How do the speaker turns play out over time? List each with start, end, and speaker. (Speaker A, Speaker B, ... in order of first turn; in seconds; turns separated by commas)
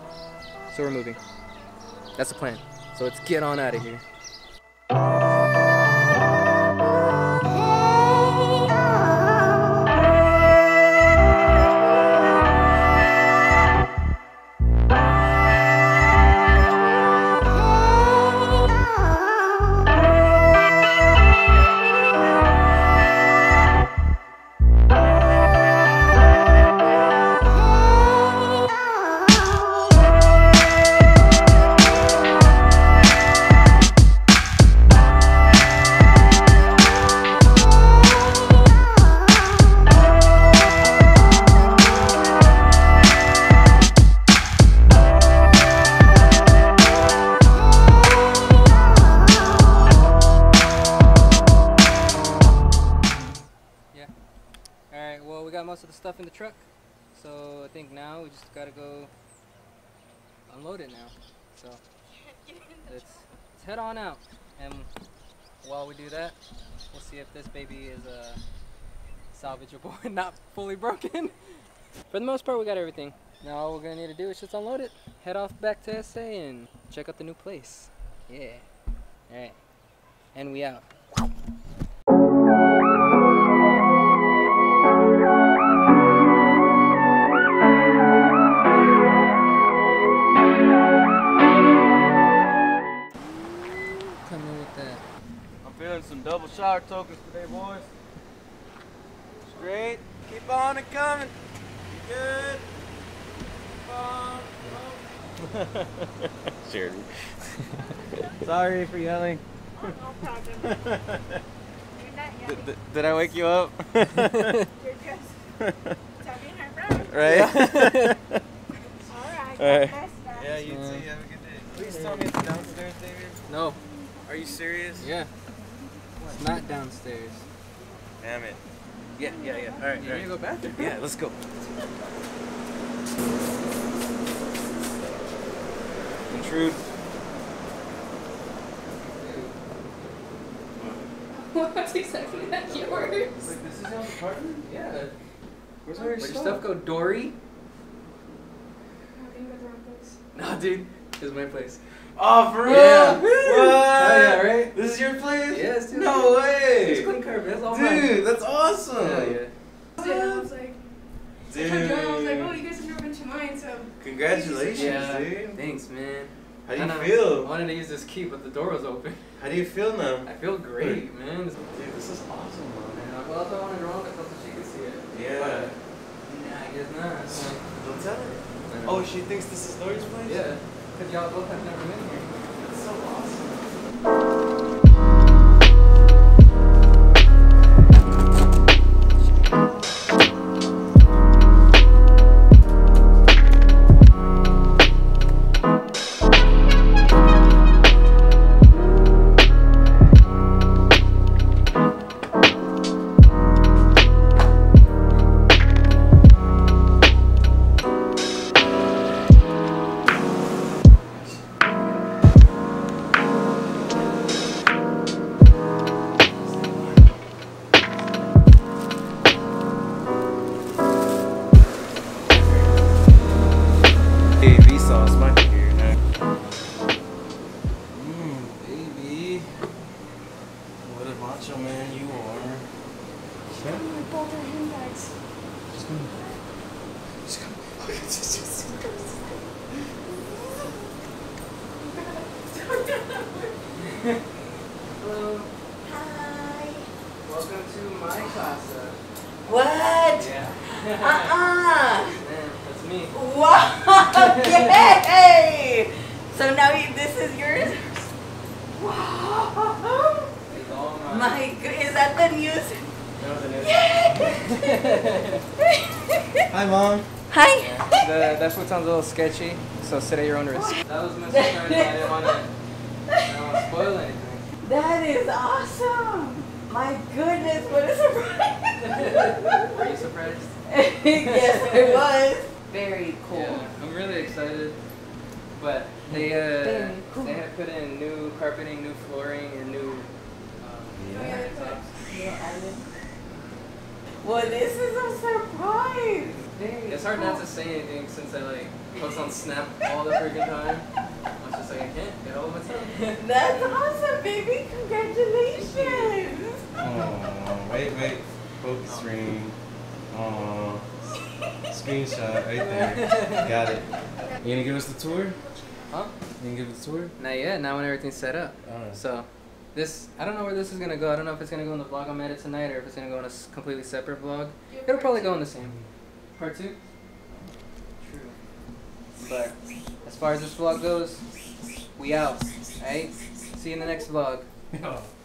Speaker A: 0.7-1.2, Speaker A: 2.2-4.0, Speaker A: 54.9-56.6, Speaker A: 57.1-59.1, Speaker A: 60.5-61.8, Speaker A: 62.9-64.9, Speaker A: 65.6-66.4, Speaker A: 66.9-68.4, Speaker A: 69.3-71.4, Speaker A: 72.1-78.6, Speaker A: 79.3-79.6, Speaker A: 80.3-80.8, Speaker A: 94.2-95.0, Speaker B: 95.6-97.9, Speaker B: 99.5-101.3, Speaker B: 101.9-102.7, Speaker B: 103.8-107.7, Speaker B: 108.4-111.4, Speaker B: 112.4-114.5, Speaker A: 114.4-114.7, Speaker B: 115.6-116.0, Speaker B: 116.9-118.4, Speaker A: 117.2-118.2, Speaker B: 119.1-123.5, Speaker A: 120.7-121.1, Speaker A: 123.5-123.8, Speaker B: 124.3-125.1, Speaker A: 125.0-125.3, Speaker A: 126.3-127.5, Speaker B: 128.2-128.6, Speaker B: 129.2-131.4, Speaker A: 130.0-131.0, Speaker B: 136.3-136.8, Speaker A: 138.9-139.5, Speaker B: 140.8-141.0, Speaker C: 141.3-143.4, Speaker A: 142.0-143.2, Speaker B: 142.7-144.7, Speaker A: 144.6-145.1, Speaker B: 145.8-146.6, Speaker A: 146.2-147.3, Speaker C: 149.2-150.2, Speaker A: 150.3-151.8, Speaker B: 152.2-157.1, Speaker A: 152.6-154.7, Speaker A: 155.5-158.2, Speaker B: 157.7-159.4, Speaker A: 158.9-159.5, Speaker B: 160.0-160.5, Speaker C: 160.0-160.8, Speaker B: 161.5-162.7, Speaker C: 161.5-165.0, Speaker B: 164.0-165.6, Speaker A: 164.7-169.3, Speaker B: 166.7-167.5, Speaker B: 169.4-171.0, Speaker A: 170.2-171.6, Speaker B: 171.7-173.2, Speaker A: 173.0-177.6, Speaker B: 175.1-175.7, Speaker B: 177.3-180.4, Speaker A: 178.7-179.1, Speaker A: 180.2-182.4, Speaker B: 182.6-183.7, Speaker B: 211.1-211.6, Speaker B: 216.4-217.1, Speaker B: 222.3-222.7, Speaker B: 224.4-225.9, Speaker B: 227.9-229.5, Speaker B: 230.8-232.7, Speaker B: 233.5-233.9, Speaker C: 234.1-235.1, Speaker B: 235.7-236.2, Speaker B: 237.3-238.5, Speaker C: 242.5-243.5, Speaker A: 243.7-244.2, Speaker A: 245.0-245.5, Speaker D: 245.8-246.9, Speaker A: 247.2-249.0, Speaker D: 249.4-250.3, Speaker A: 250.2-251.4, Speaker D: 251.0-252.2, Speaker A: 252.2-253.2, Speaker D: 253.1-258.1, Speaker A: 254.1-254.9, Speaker D: 258.8-260.3, Speaker A: 260.5-261.4, Speaker D: 261.1-262.9, Speaker B: 263.2-264.1, Speaker D: 263.6-265.1, Speaker A: 264.2-265.4, Speaker D: 265.6-266.4, Speaker B: 266.5-267.1, Speaker D: 267.3-267.9, Speaker A: 267.6-272.5, Speaker D: 270.5-272.3, Speaker A: 273.2-274.5, Speaker D: 274.6-280.0, Speaker A: 278.8-280.6, Speaker D: 280.6-283.7, Speaker A: 281.1-282.1, Speaker A: 283.3-284.8, Speaker A: 285.6-291.9, Speaker D: 286.6-287.4, Speaker B: 290.9-291.6, Speaker C: 291.1-291.8, Speaker D: 292.1-292.8, Speaker A: 293.3-293.6, Speaker D: 294.2-297.4, Speaker A: 294.3-294.7, Speaker A: 296.9-300.9, Speaker A: 301.4-303.8, Speaker D: 303.2-306.7, Speaker A: 305.6-306.1, Speaker B: 306.8-309.6, Speaker A: 308.8-309.1, Speaker B: 310.1-310.9, Speaker B: 311.7-313.8, Speaker A: 312.5-313.6, Speaker B: 314.4-315.4, Speaker B: 316.4-317.1, Speaker A: 317.2-325.8, Speaker B: 318.6-319.0, Speaker A: 326.4-326.8, Speaker A: 328.0-328.4, Speaker A: 329.2-331.2, Speaker A: 332.0-334.5, Speaker B: 334.7-335.1